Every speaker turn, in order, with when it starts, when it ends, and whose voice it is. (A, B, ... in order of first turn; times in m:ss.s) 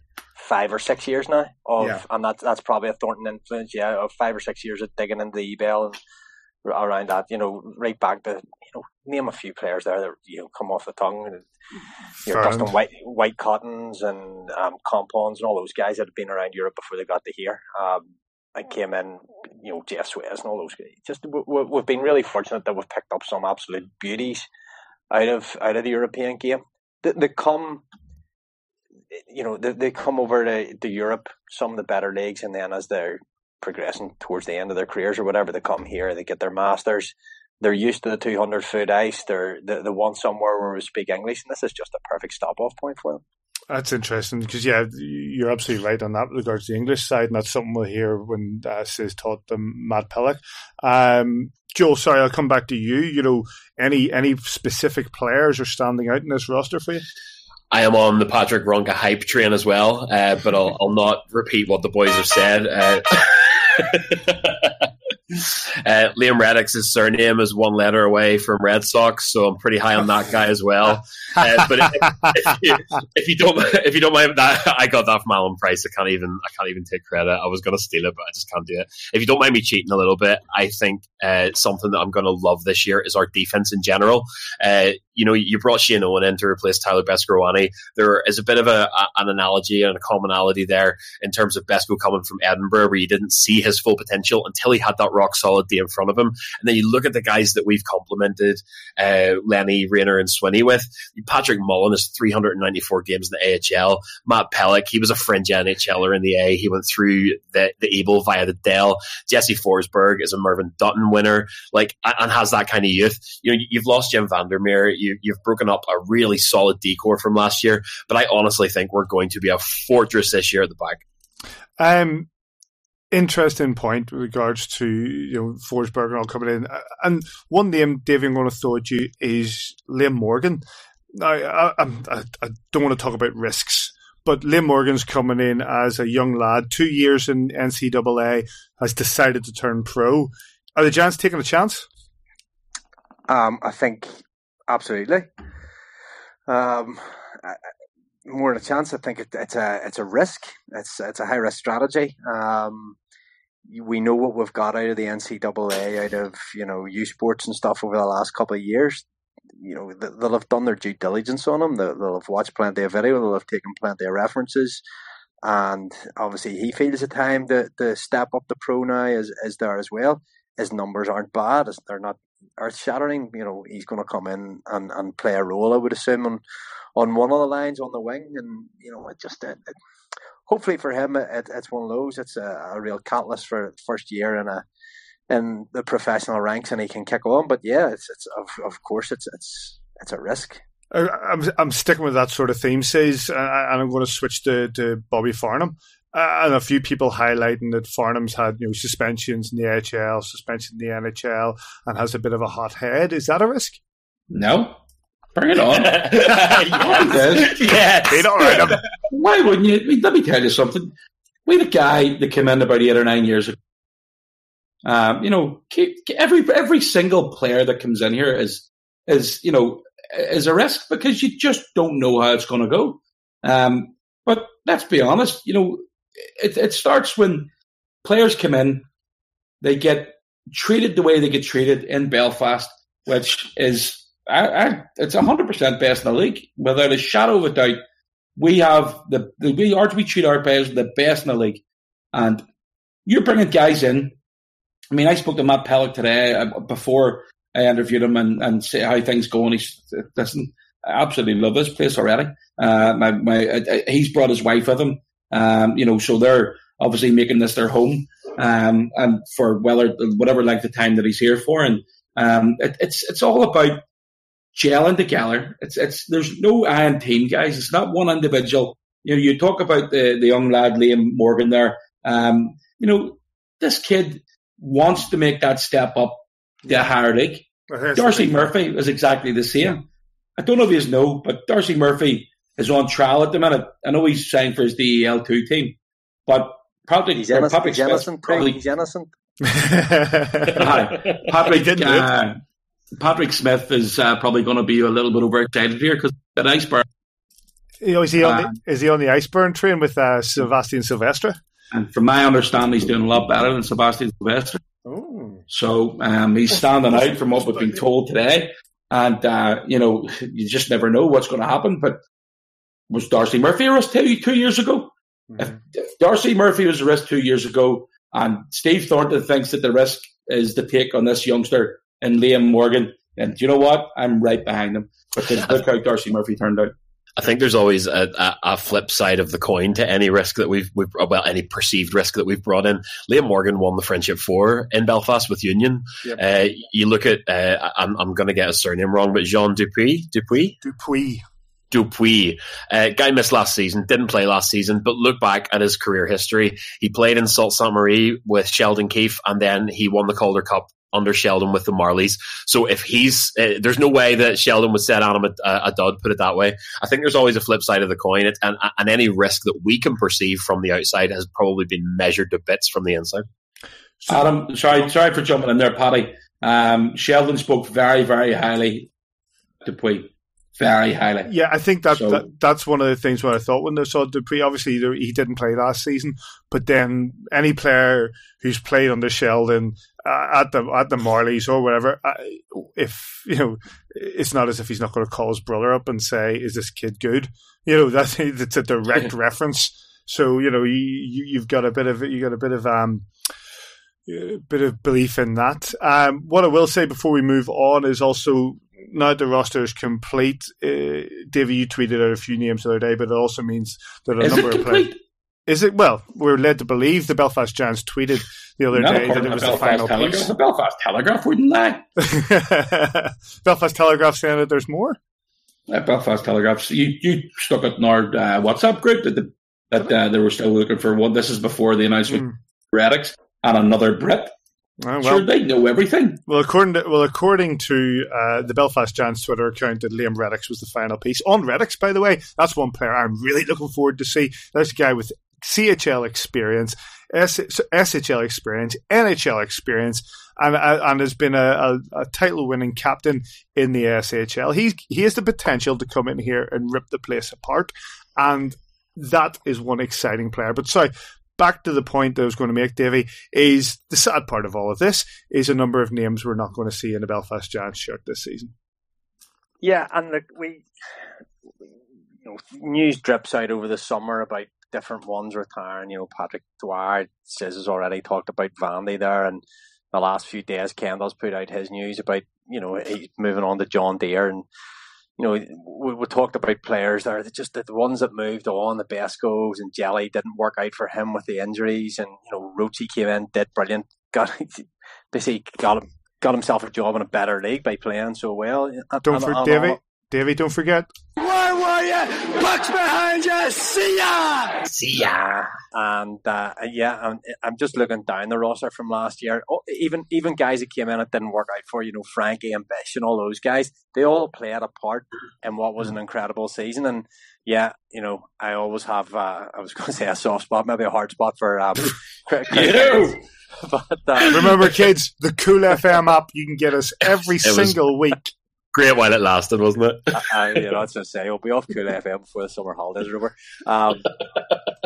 0:00.4-0:06.0 A
0:06.6-0:11.4 A
0:12.2-0:24.4 A
0:12.3-0:12.7 B
0:25.1-0:27.8 A
0:29.1-0:43.2 A
0:43.7-0:57.0 B
0:57.7-2:01.0 C
2:01.8-2:02.3 B
2:03.1-2:21.9 B
2:23.3-2:25.3 A
2:26.5-2:27.6 A
2:28.2-2:33.0 A
2:33.7-2:39.0 A
2:39.6-2:44.8 A
2:45.4-2:56.4 A
2:57.0-2:59.7 A
3:00.5-3:04.6 A
3:05.3-3:10.6 A
3:10.9-3:23.8 B
3:24.3-3:24.8 D
3:25.3-3:27.7 D
3:25.7-3:28.7 C
3:28.0-3:28.8 B
3:29.1-3:30.9 D
3:31.4-3:33.6 D
3:34.8-3:45.8 D
3:46.4-3:47.5 D
3:48.0-3:48.8 D
3:49.6-3:57.8 D
3:58.4-4:01.6 D
4:02.1-4:02.4 D
4:03.0-4:04.1 D
4:04.9-4:23.8 D
4:24.5-4:39.8 D
4:37.7-4:38.5 B
4:40.4-4:45.8 D
4:46.3-4:48.6 D
4:47.2-4:49.1 A
4:49.4-4:50.7 B
4:50.5-4:52.4 D
4:51.4-4:52.1 B
4:53.0-4:56.8 D
4:57.8-5:01.4 B
4:58.2-4:58.5 D
5:01.7-5:04.6 D
5:04.8-5:05.4 B
5:05.5-5:12.0 D
5:06.7-5:07.4 B
5:12.9-5:26.7 D
5:15.3-5:15.6 B
5:27.2-5:40.6 C
5:40.6-5:41.2 B
5:41.7-6:03.3 C
6:04.0-6:04.8 B
6:04.1-6:08.9 D
6:09.6-6:11.3 D
6:11.2-6:33.1 B
6:11.9-6:12.2 D
6:34.0-6:44.9 B
6:44.2-6:45.0 D
6:45.5-6:50.3 B
6:48.7-6:51.8 D
6:52.0-6:55.0 B
6:55.7-7:04.3 D
7:04.8-7:05.3 B
7:05.0-7:06.2 D
7:06.3-7:38.5 B
7:39.6-7:40.6 A
7:42.2-7:49.4 A
7:49.9-7:54.4 A
7:55.2-8:09.8 A
8:09.0-8:10.9 B
8:11.2-8:14.6 E
8:14.7-8:15.0 C
8:14.9-8:34.5 A
8:32.5-8:33.1 D
8:34.2-8:38.3 B
8:37.4-8:37.8 C
8:38.7-8:40.3 C
8:40.1-8:44.1 A